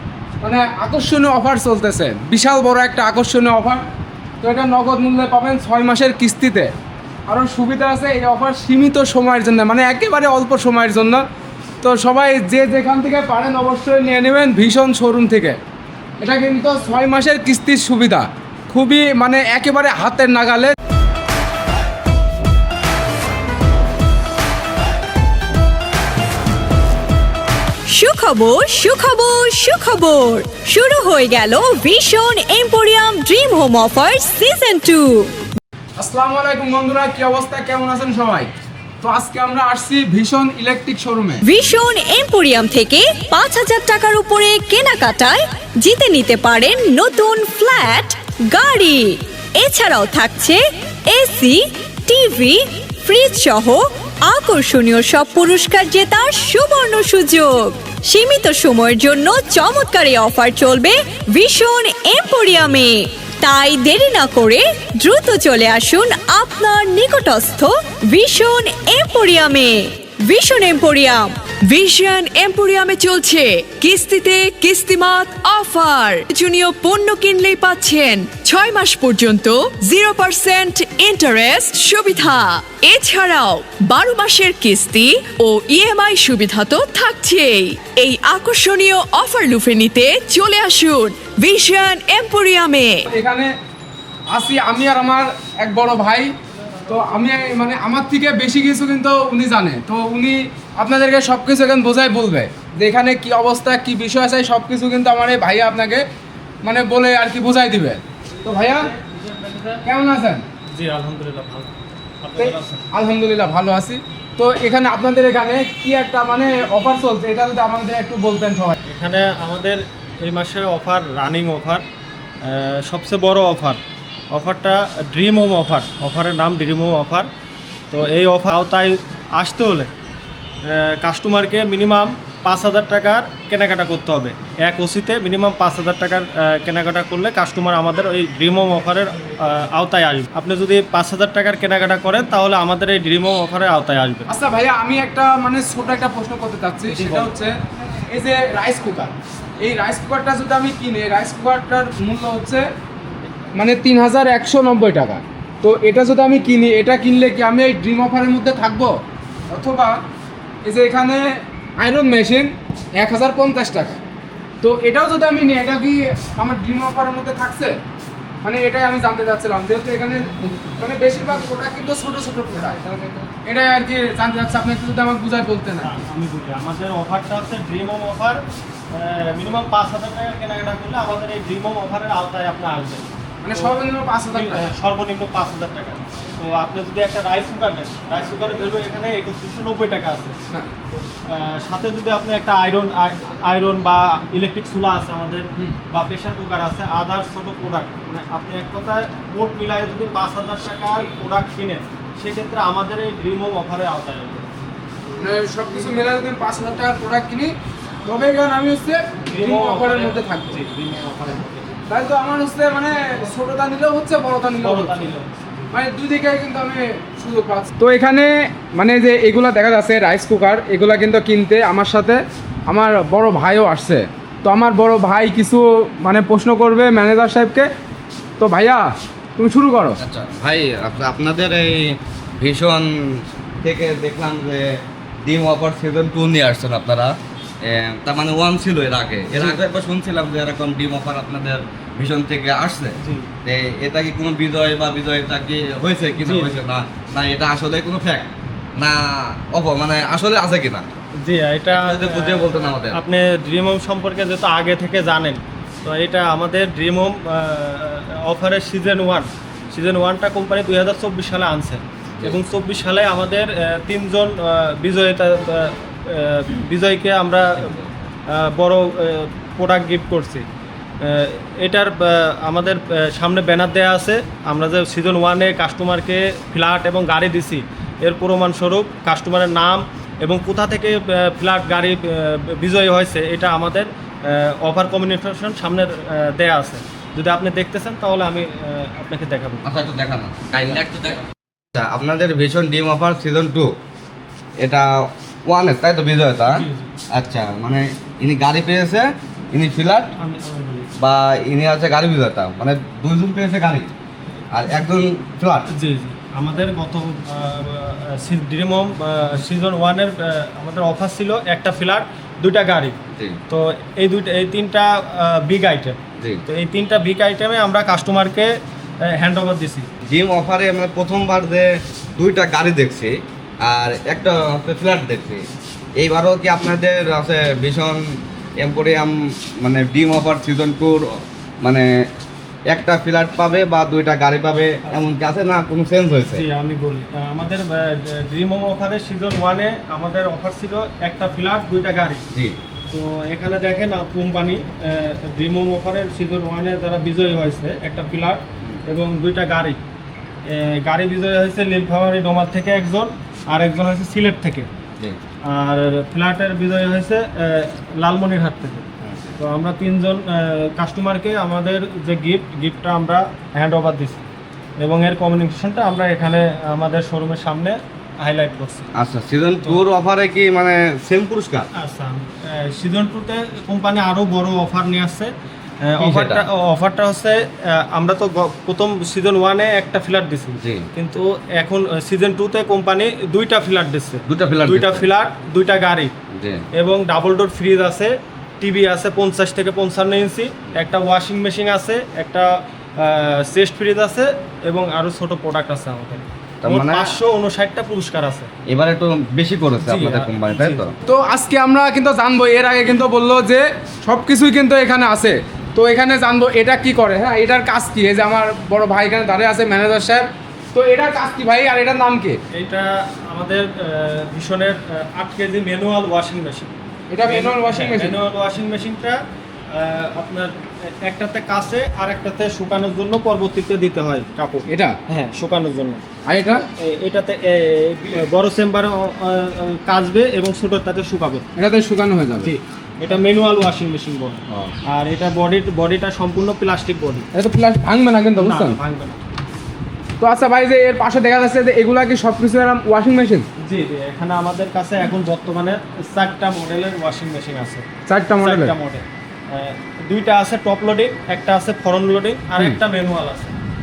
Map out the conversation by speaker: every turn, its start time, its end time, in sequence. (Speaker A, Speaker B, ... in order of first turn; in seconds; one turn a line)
Speaker A: 0.4-3.8
Speaker A: 4.4-6.7
Speaker A: 7.3-11.2
Speaker A: 11.8-15.6
Speaker A: 16.2-20.7
Speaker B: 27.9-35.3
Speaker A: 36.0-38.5
Speaker A: 39.0-41.4
Speaker B: 41.4-71.3
Speaker C: 71.7-93.0
Speaker A: 93.0-93.5
Speaker A: 94.3-96.3
Speaker A: 96.9-106.0
Speaker A: 106.6-108.9
Speaker D: 108.4-109.8
Speaker A: 109.8-110.4
Speaker D: 110.7-111.7
Speaker D: 112.2-112.8
Speaker A: 112.4-118.8
Speaker D: 118.8-121.8
Speaker D: 122.4-123.8
Speaker D: 124.3-127.3
Speaker D: 127.9-129.9
Speaker D: 130.6-144.3
Speaker A: 144.3-147.5
Speaker D: 146.9-147.3
Speaker A: 148.1-152.7
Speaker A: 153.5-158.9
Speaker A: 159.5-160.0
Speaker A: 160.6-164.0
Speaker A: 164.6-167.8
Speaker A: 168.4-175.9
Speaker D: 175.8-183.8
Speaker A: 183.4-184.6
Speaker D: 184.3-190.3
Speaker D: 191.2-204.5
Speaker A: 205.2-207.5
Speaker A: 208.0-210.6
Speaker D: 209.3-211.8
Speaker A: 211.9-215.1
Speaker D: 214.6-215.7
Speaker A: 215.7-227.7
Speaker A: 228.4-230.0
Speaker E: 230.0-234.7
Speaker E: 235.2-250.8
Speaker D: 243.0-243.3
Speaker D: 246.2-246.5
Speaker D: 251.2-270.4
Speaker E: 251.7-253.0
Speaker D: 271.0-289.6
Speaker E: 289.6-291.2
Speaker E: 291.7-293.8
Speaker E: 294.6-296.6
Speaker D: 296.5-296.9
Speaker E: 297.1-300.1
Speaker D: 300.2-300.9
Speaker E: 301.0-303.9
Speaker E: 304.5-305.7
Speaker D: 305.7-312.9
Speaker D: 313.5-318.5
Speaker D: 319.0-319.9
Speaker E: 320.1-325.4
Speaker E: 326.0-331.9
Speaker E: 332.7-336.4
Speaker D: 336.3-342.2
Speaker E: 342.3-342.6
Speaker D: 342.9-349.8
Speaker D: 350.4-354.7
Speaker D: 355.4-358.8
Speaker E: 359.0-359.3
Speaker D: 359.4-364.2
Speaker D: 364.8-368.9
Speaker E: 368.9-371.7
Speaker D: 371.7-375.3
Speaker D: 375.8-386.1
Speaker E: 376.0-376.4
Speaker E: 380.6-380.9
Speaker E: 384.3-385.1
Speaker E: 386.3-386.6
Speaker D: 386.7-398.5
Speaker E: 396.6-397.1
Speaker E: 398.7-400.9
Speaker D: 399.8-400.8
Speaker A: 401.1-412.4
Speaker D: 412.5-416.7
Speaker A: 417.1-418.2
Speaker D: 417.2-419.2
Speaker D: 419.7-426.0
Speaker A: 424.7-425.0
Speaker A: 426.2-426.6
Speaker D: 426.8-431.4
Speaker A: 431.6-432.6
Speaker D: 432.4-437.2
Speaker A: 437.3-438.8
Speaker D: 438.4-439.2
Speaker A: 440.2-443.5
Speaker D: 443.6-447.8
Speaker A: 448.1-448.7
Speaker D: 448.4-453.5